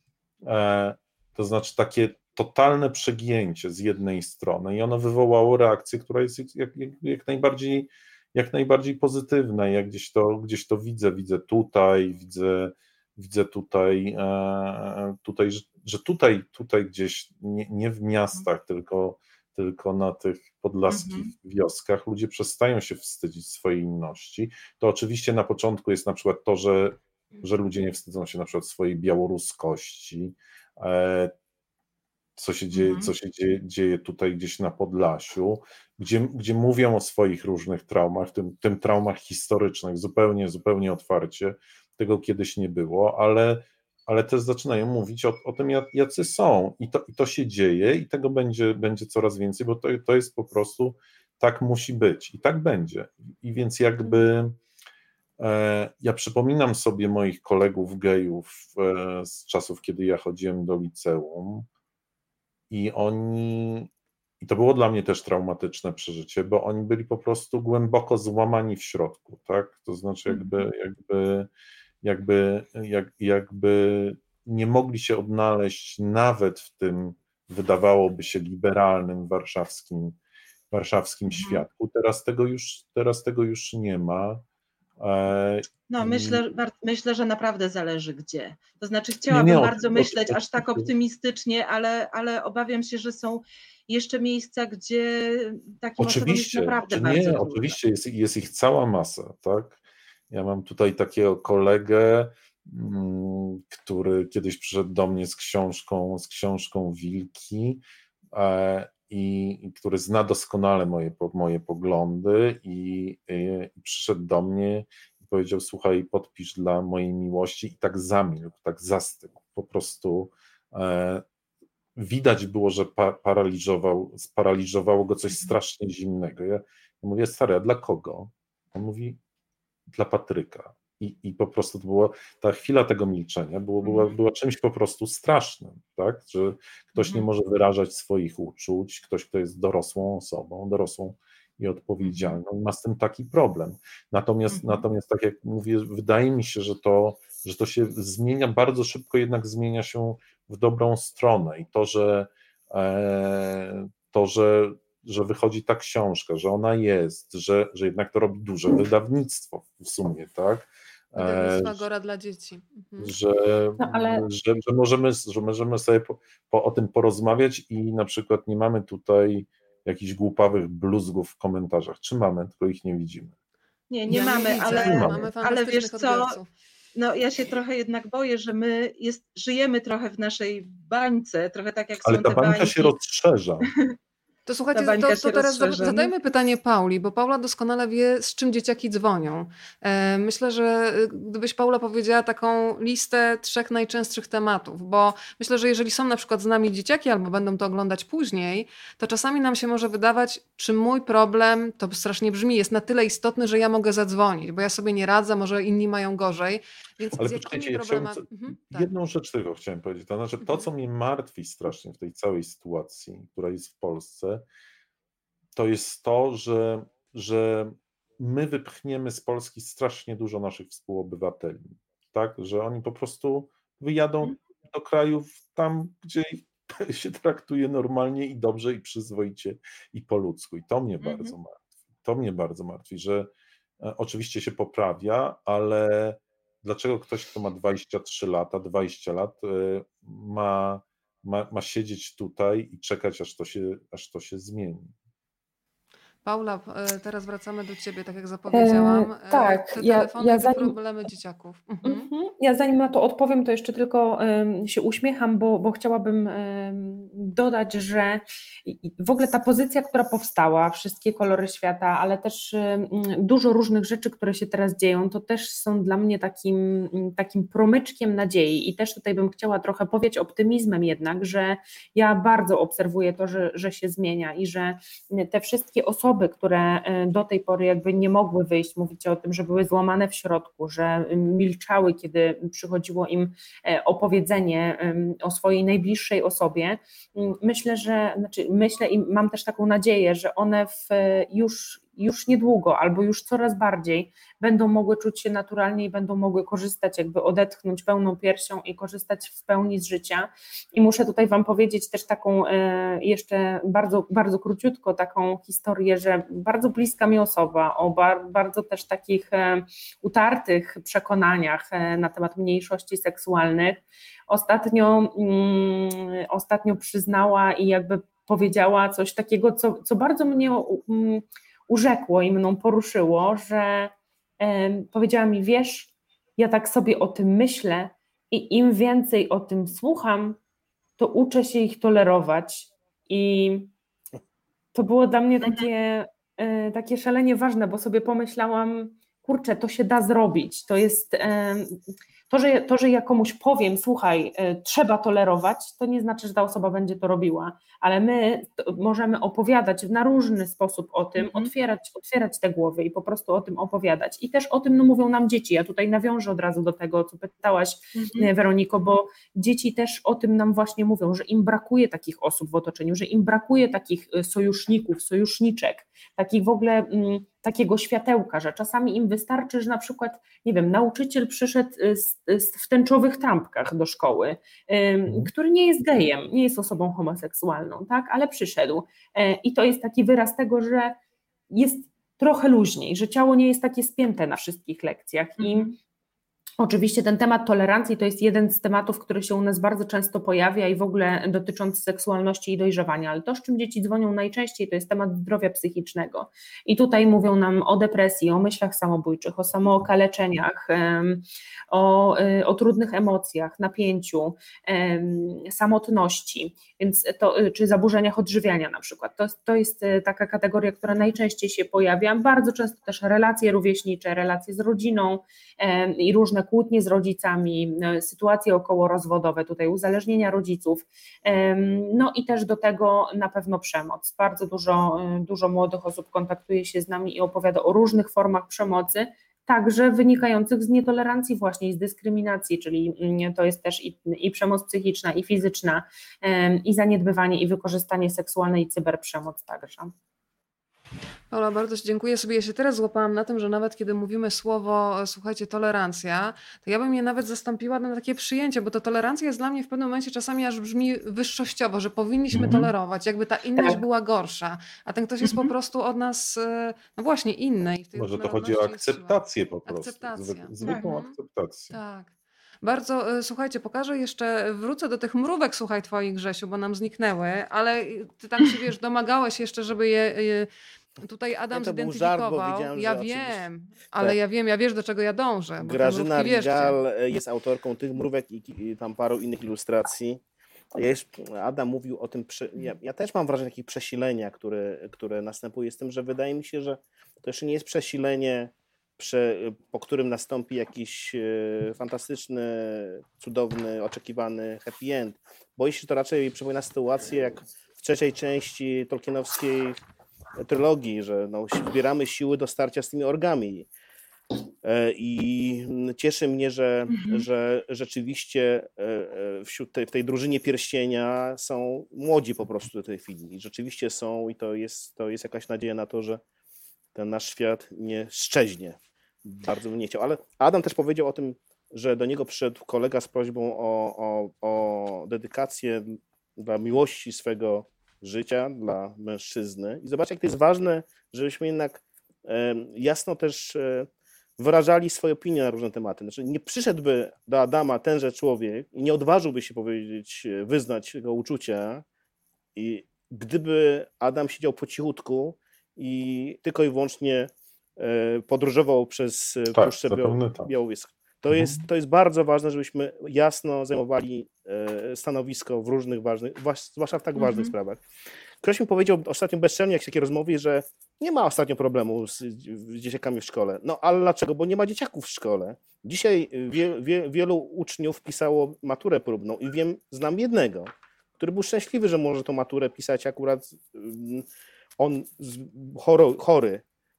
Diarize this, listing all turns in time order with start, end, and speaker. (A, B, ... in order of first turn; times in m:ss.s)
0:00.4-0:31.3 A
0:20.9-0:21.3 B
0:32.4-0:54.6 A
0:32.7-0:33.1 B
0:55.4-1:01.7 A
1:02.7-1:03.9 A
1:04.4-1:11.5 A
1:12.0-1:20.2 A
1:20.7-1:24.4 A
1:21.3-1:21.6 B
1:25.0-1:26.4 A
1:25.9-1:37.8 B
1:29.3-1:30.9 A
1:36.0-1:39.8 A
1:40.3-1:47.8 A
1:48.3-2:01.2 A
2:02.0-2:09.2 A
2:09.9-2:41.8 A
2:13.8-2:14.1 B
2:17.0-2:17.3 B
2:22.0-2:22.4 B
2:24.5-2:24.8 B
2:41.2-2:43.1 C
2:43.0-2:53.3 A
2:43.8-2:44.2 D
2:53.9-2:56.4 B
2:54.1-2:55.3 A
2:54.1-2:56.5 C
2:57.0-3:02.9 B
3:02.0-3:03.7 A
3:04.4-3:28.9 C
3:04.7-3:06.1 B
3:27.2-3:34.4 A
3:30.4-3:30.7 C
3:35.6-4:04.9 A
3:51.0-3:51.4 B
4:06.2-4:12.1 C
4:08.5-4:10.8 D
4:11.8-5:30.4 D
5:31.0-5:33.7 D
5:34.7-5:41.8 D
5:35.4-5:35.7 B
5:42.3-6:21.0 D
5:51.2-5:51.5 B
5:58.0-5:58.3 B
6:21.5-6:25.7 D
6:25.4-6:25.7 B
6:26.6-7:19.9 D
7:21.3-7:41.1 C
7:32.3-7:32.7 A
7:38.0-7:41.8 A
7:41.7-7:42.1 C
7:42.6-7:50.5 C
7:51.0-7:56.8 C
7:51.5-7:53.4 E
7:55.6-8:00.2 E
8:00.7-8:19.8 E
8:20.4-8:23.7 E
8:24.6-8:36.2 E
8:26.9-8:27.2 B
8:37.0-9:01.8 E
9:02.6-9:17.8 E
9:09.5-9:10.5 A
9:11.3-9:11.6 A
9:17.2-9:17.5 B
9:18.4-9:34.3 E
9:34.8-9:36.6 E